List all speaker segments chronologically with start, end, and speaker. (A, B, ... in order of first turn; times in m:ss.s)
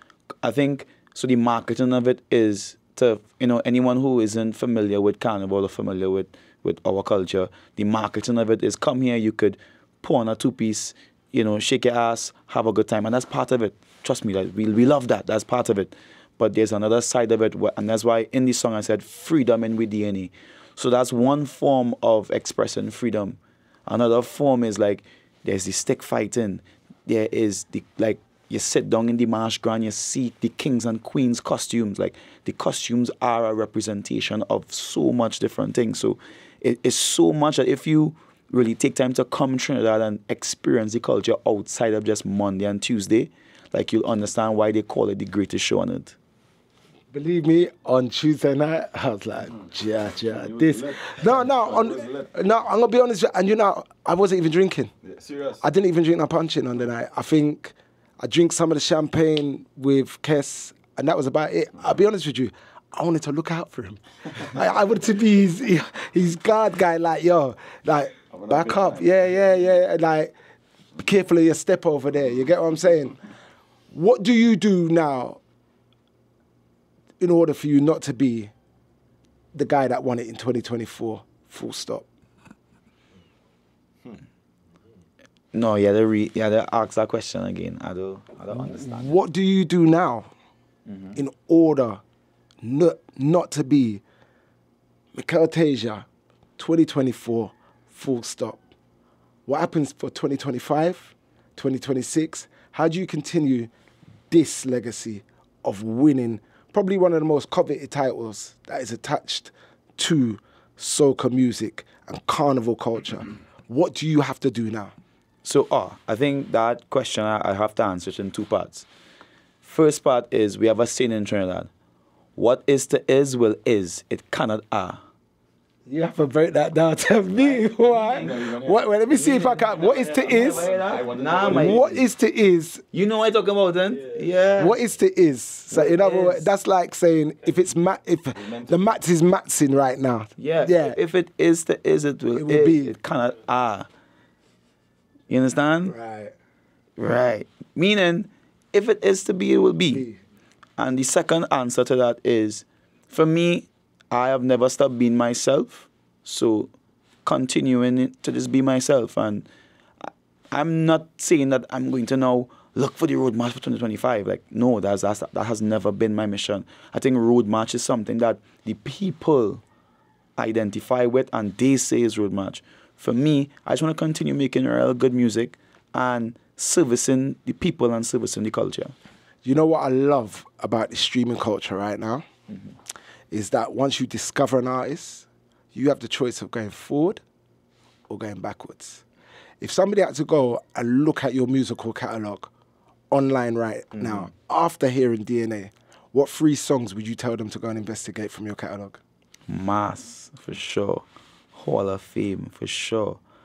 0:00.4-0:46.2 A
0:47.1-0:54.9 B
0:50.2-0:52.4 C
0:55.0-0:55.6 C
0:55.6-1:10.3 B
1:08.3-1:09.5 C
1:11.0-1:13.2 B
1:13.9-1:15.4 B
1:17.2-1:18.5 B
1:19.5-1:22.0 B
1:25.5-1:29.1 A
1:28.5-1:30.3 B
1:30.9-1:31.2 A
1:31.2-1:32.0 B
1:32.6-1:34.0 B
1:35.2-1:36.1 B
1:36.6-1:38.6 B
1:39.5-1:43.7 B
1:44.3-1:54.9 B
1:55.4-1:58.9 A
1:59.6-2:01.7 A
2:02.4-2:05.0 A
2:05.9-2:10.7 B
2:07.6-2:08.8 C
2:07.9-2:08.3 A
2:09.1-2:11.9 A
2:09.7-2:12.0 C
2:11.4-2:12.8 B
2:12.9-2:14.8 A
2:14.6-2:21.0 B
2:15.7-2:16.5 A
2:18.4-2:18.9 C
2:20.4-2:23.9 A
2:22.3-2:23.0 B
2:25.3-2:26.0 A
2:25.8-2:26.3 B
2:27.0-2:30.1 A
2:29.9-2:30.2 B
2:30.8-2:36.7 A
2:37.2-2:39.5 A
2:40.0-2:49.6 A
2:50.4-2:58.9 A
2:59.4-3:02.2 B
3:03.3-3:07.2 B
3:08.1-3:09.0 B
3:09.6-3:12.5 B
3:13.1-3:19.0 B
3:14.0-3:14.3 A
3:19.5-3:23.2 A